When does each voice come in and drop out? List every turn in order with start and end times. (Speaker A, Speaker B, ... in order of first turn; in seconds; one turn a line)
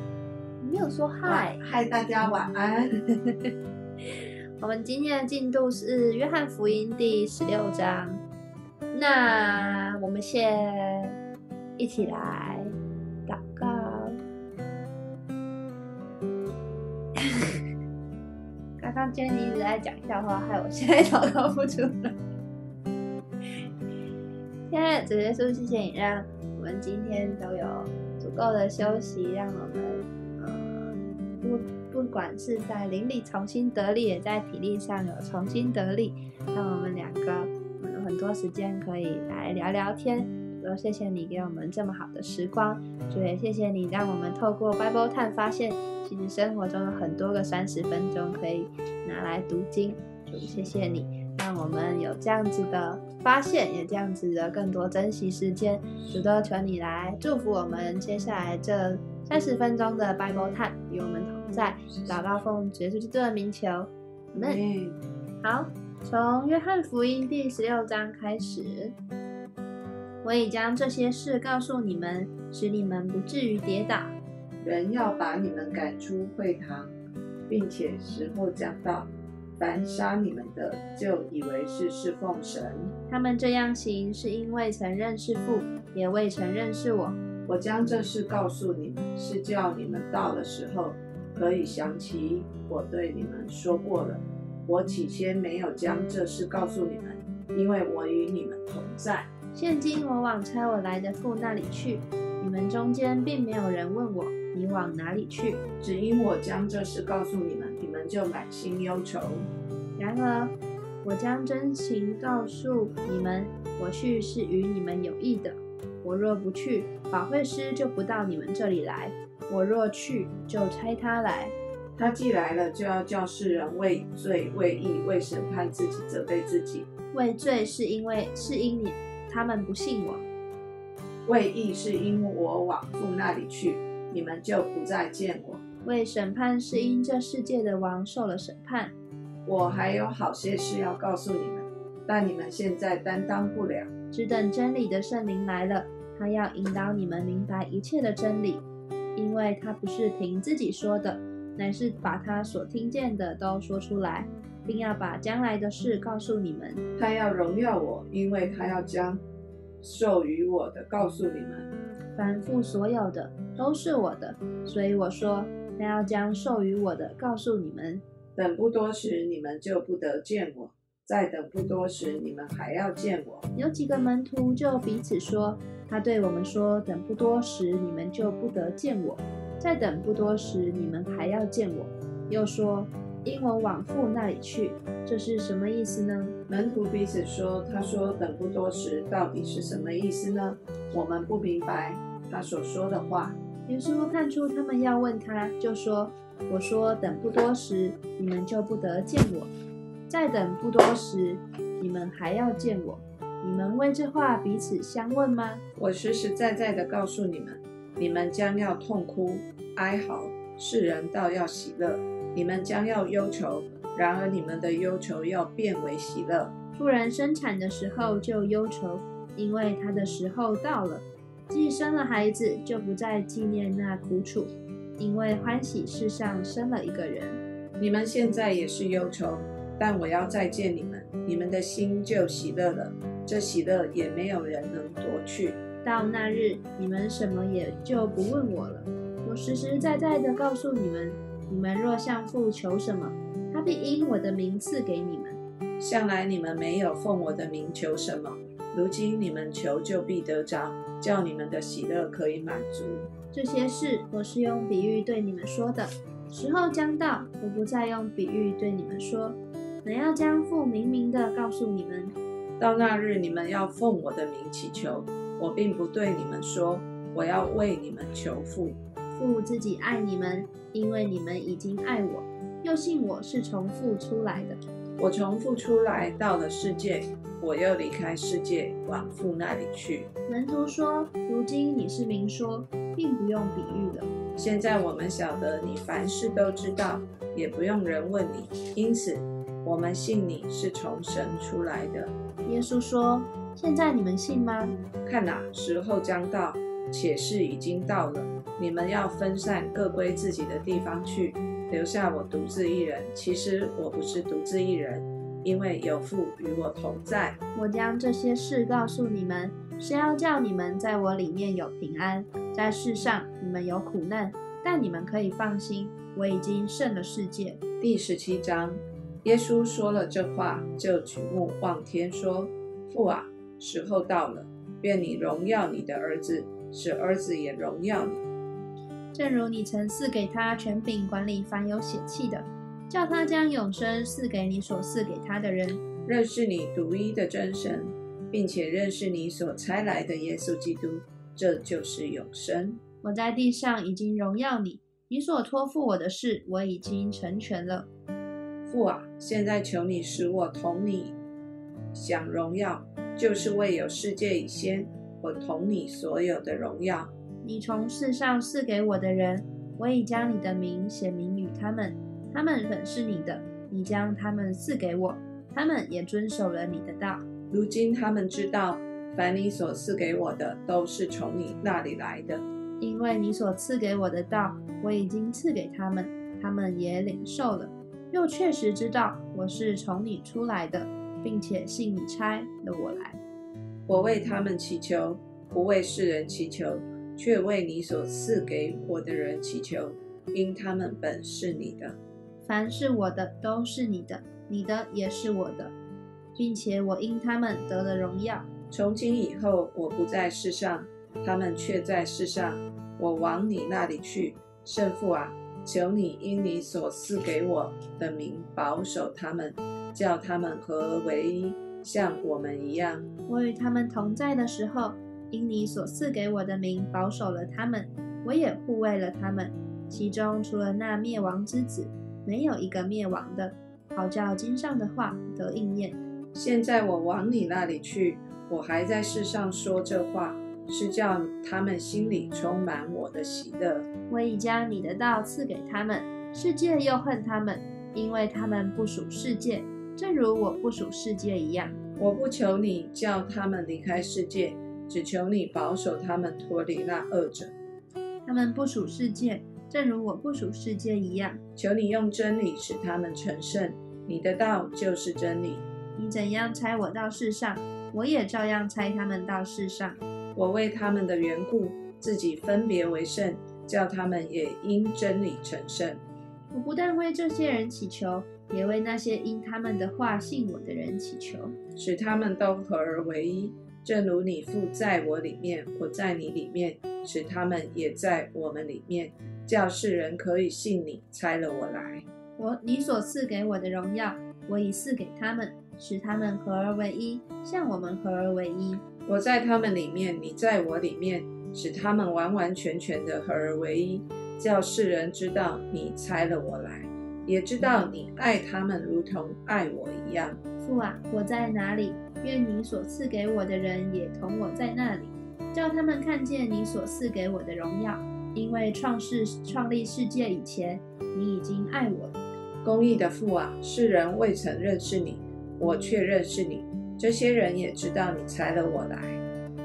Speaker A: 0.6-1.6
Speaker B: 1.2-2.9
Speaker A: 4.0-8.2
Speaker A: 8.9-11.2
Speaker A: 11.8-12.7
Speaker A: 13.3-14.2
Speaker A: 17.2-17.4
Speaker A: 18.8-22.1
Speaker A: 24.7-64.6
Speaker B: 61.9-62.4
Speaker B: 64.3-65.0
Speaker A: 65.4-69.0
Speaker A: 70.2-74.1
Speaker B: 74.6-76.9
Speaker B: 77.5-82.9
Speaker A: 83.1-87.2
Speaker B: 87.5-99.3
Speaker A: 99.5-105.6
Speaker B: 105.8-109.5
Speaker A: 110.0-121.5
Speaker B: 122.0-126.9
Speaker A: 127.1-130.3
Speaker B: 131.3-135.6
Speaker A: 135.8-138.9
Speaker B: 139.5-143.9
Speaker A: 144.1-148.7
Speaker A: 149.2-156.8
Speaker B: 157.0-159.2
Speaker B: 159.8-161.7
Speaker A: 162.2-168.0
Speaker B: 168.4-173.5
Speaker A: 173.6-186.3
Speaker B: 186.5-193.4
Speaker A: 193.7-199.5
Speaker A: 200.1-205.6
Speaker B: 205.8-216.5
Speaker A: 216.8-227.4
Speaker B: 227.8-235.6
Speaker A: 235.8-245.4
Speaker B: 245.8-253.1
Speaker A: 253.3-262.2
Speaker B: 262.6-268.8
Speaker A: 269.1-274.6
Speaker B: 275.0-280.1
Speaker A: 280.3-284.1
Speaker B: 284.4-292.1
Speaker A: 292.4-294.8
Speaker B: 295.1-307.4
Speaker A: 307.6-317.6
Speaker B: 317.8-328.2
Speaker A: 329.1-335.8
Speaker B: 336.1-342.8
Speaker A: 343.0-347.9
Speaker B: 348.7-351.2
Speaker B: 351.9-357.1
Speaker A: 357.4-367.2
Speaker B: 367.5-372.4
Speaker A: 372.8-383.2
Speaker B: 383.9-392.0
Speaker A: 392.4-395.7
Speaker A: 396.4-398.5
Speaker B: 398.7-413.1
Speaker A: 413.3-426.0
Speaker B: 426.3-433.9
Speaker A: 434.1-441.8
Speaker B: 442.0-447.5
Speaker A: 448.2-451.4
Speaker B: 451.6-455.6
Speaker A: 456.0-460.0
Speaker B: 460.4-466.0
Speaker A: 466.5-471.6
Speaker B: 471.8-482.1
Speaker A: 482.4-488.8
Speaker B: 489.1-500.4
Speaker A: 500.6-512.2
Speaker B: 512.6-519.2